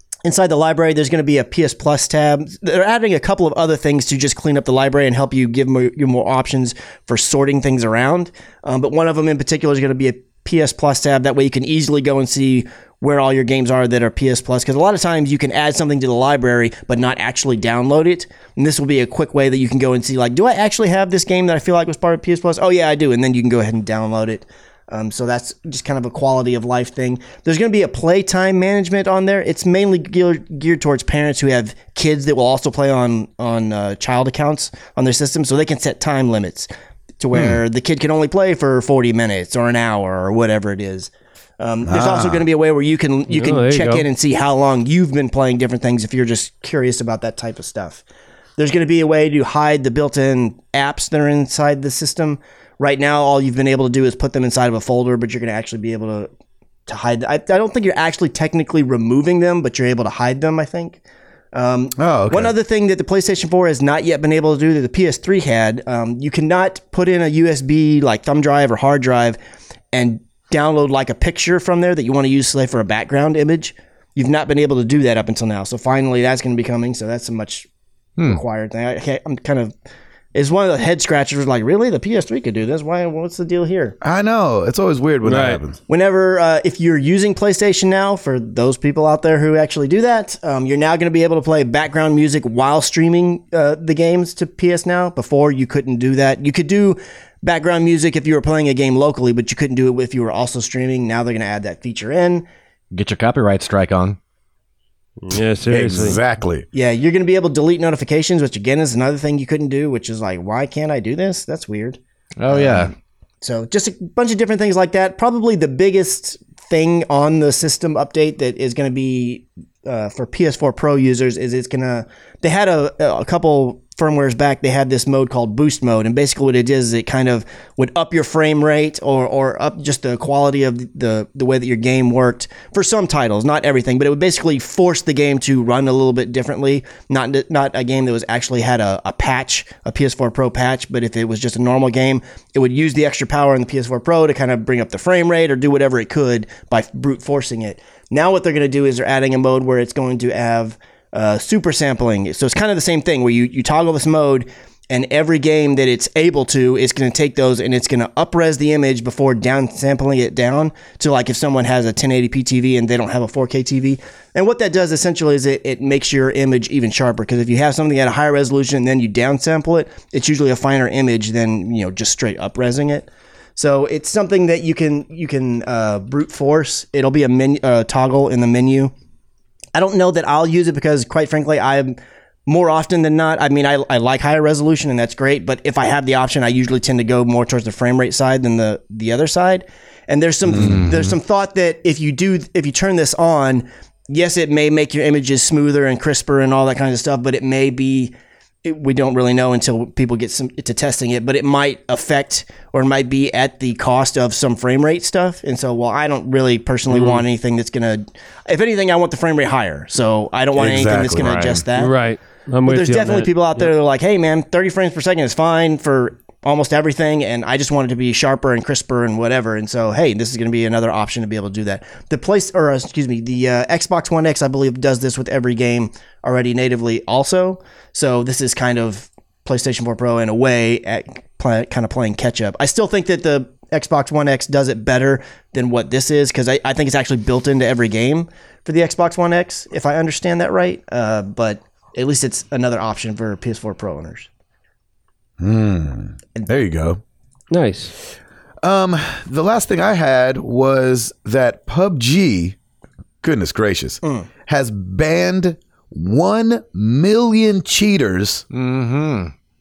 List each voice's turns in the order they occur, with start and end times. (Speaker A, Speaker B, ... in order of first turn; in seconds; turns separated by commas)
Speaker A: 0.2-48.0, Speaker B: 37.3-37.6, Speaker C: 41.8-42.4, Speaker D: 43.3-44.1, Speaker A: 48.6-56.3, Speaker A: 56.9-61.0, Speaker A: 61.5-69.4, Speaker C: 62.0-62.5, Speaker A: 69.9-77.7, Speaker A: 78.2-79.7, Speaker A: 80.3-84.0, Speaker C: 84.0-85.8, Speaker D: 85.2-85.6, Speaker A: 85.9-102.5, Speaker B: 102.9-104.2, Speaker D: 105.2-106.2, Speaker C: 105.7-106.7, Speaker A: 106.7-178.9, Speaker B: 112.4-112.9, Speaker A: 179.7-211.9, Speaker C: 190.5-190.8, Speaker B: 190.6-191.1, Speaker D: 206.9-207.2, Speaker C: 210.6-211.6, Speaker B: 211.2-211.5, Speaker D: 211.8-213.7, Speaker A: 212.7-244.3, Speaker C: 245.4-247.0, Speaker D: 247.5-247.9, Speaker C: 248.6-252.6, Speaker C: 253.2-258.4, Speaker B: 258.5-259.3